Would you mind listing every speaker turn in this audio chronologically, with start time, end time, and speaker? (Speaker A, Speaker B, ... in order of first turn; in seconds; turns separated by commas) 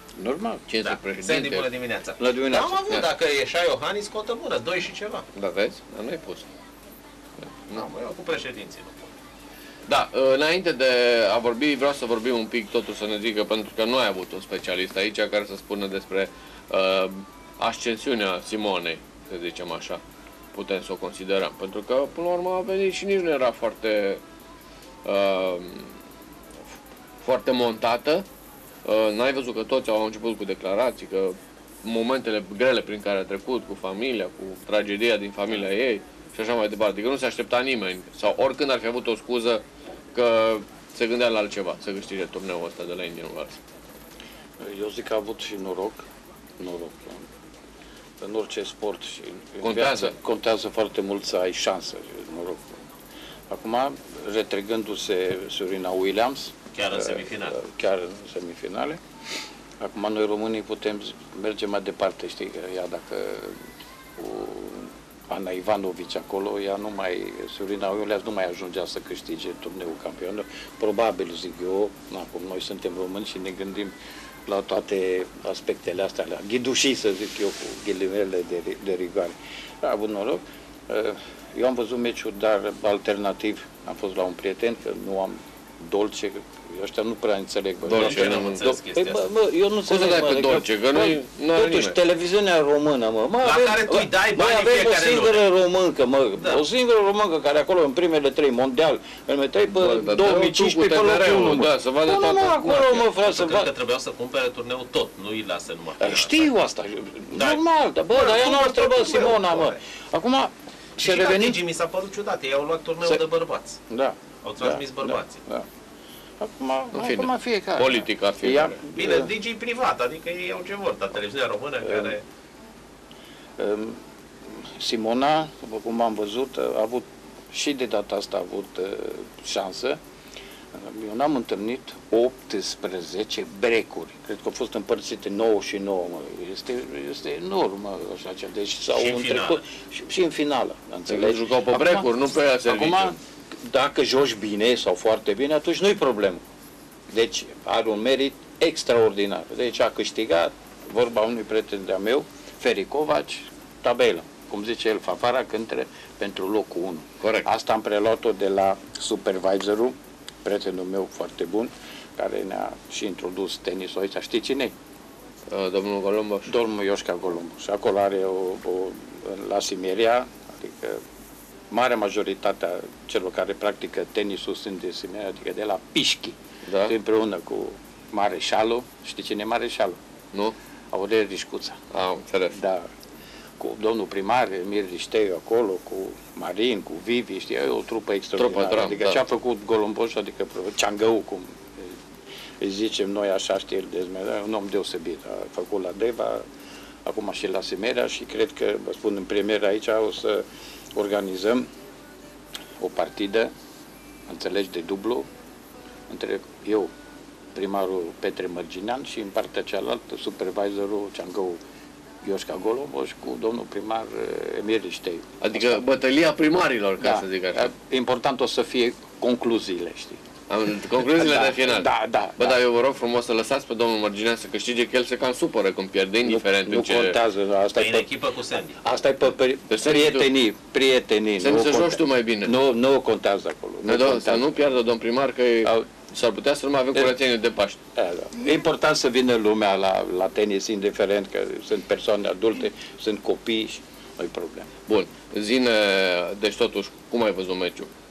Speaker A: 0.2-0.6, Speaker B: 0.7-1.7, Speaker C: 0.8-5.2, Speaker A: 2.2-3.0, Speaker B: 5.3-6.5, Speaker C: 7.7-9.1, Speaker B: 9.9-20.0, Speaker B: 20.5-24.2, Speaker B: 25.0-25.9, Speaker B: 27.2-28.2, Speaker B: 28.8-39.6, Speaker B: 40.1-43.6, Speaker A: 44.6-46.0, Speaker A: 46.6-47.2, Speaker A: 48.2-52.8, Speaker B: 49.6-50.1, Speaker A: 53.5-59.0, Speaker C: 56.7-57.5, Speaker A: 59.8-63.5, Speaker A: 64.2-73.9, Speaker A: 74.5-103.7, Speaker B: 87.8-88.6, Speaker C: 87.9-89.2, Speaker B: 89.8-92.0, Speaker C: 93.4-95.5, Speaker C: 96.4-96.6, Speaker B: 99.7-103.0, Speaker C: 103.1-106.5, Speaker A: 106.0-111.6, Speaker C: 107.3-109.8, Speaker C: 111.0-113.8, Speaker A: 113.9-115.7, Speaker C: 114.4-115.4, Speaker A: 116.4-119.3, Speaker B: 116.9-118.8, Speaker C: 119.0-122.2, Speaker A: 121.8-122.1, Speaker A: 123.6-124.0, Speaker A: 124.6-130.0, Speaker A: 130.7-142.1, Speaker C: 138.9-139.6, Speaker B: 141.1-143.1, Speaker A: 142.6-146.4, Speaker A: 147.1-164.7, Speaker B: 157.2-157.5, Speaker B: 165.5-166.5, Speaker A: 166.5-171.0, Speaker A: 171.7-180.0, Speaker B: 176.6-176.9, Speaker A: 180.9-181.8, Speaker B: 181.9-182.6, Speaker A: 182.5-182.9, Speaker A: 183.6-191.9, Speaker B: 188.4-189.2, Speaker A: 192.6-196.4, Speaker A: 197.0-200.4, Speaker A: 200.9-201.7, Speaker A: 202.8-203.5, Speaker A: 204.3-205.2, Speaker A: 206.1-206.9, Speaker A: 207.5-211.6, Speaker A: 212.2-215.8, Speaker B: 215.4-217.7, Speaker A: 217.0-220.2, Speaker B: 220.5-227.2, Speaker A: 221.0-222.6, Speaker A: 226.2-228.1, Speaker C: 227.8-228.8, Speaker A: 228.8-234.8, Speaker B: 229.7-230.3, Speaker B: 231.4-232.5, Speaker B: 233.8-237.8, Speaker A: 235.6-235.9, Speaker A: 237.9-244.7, Speaker B: 244.9-247.9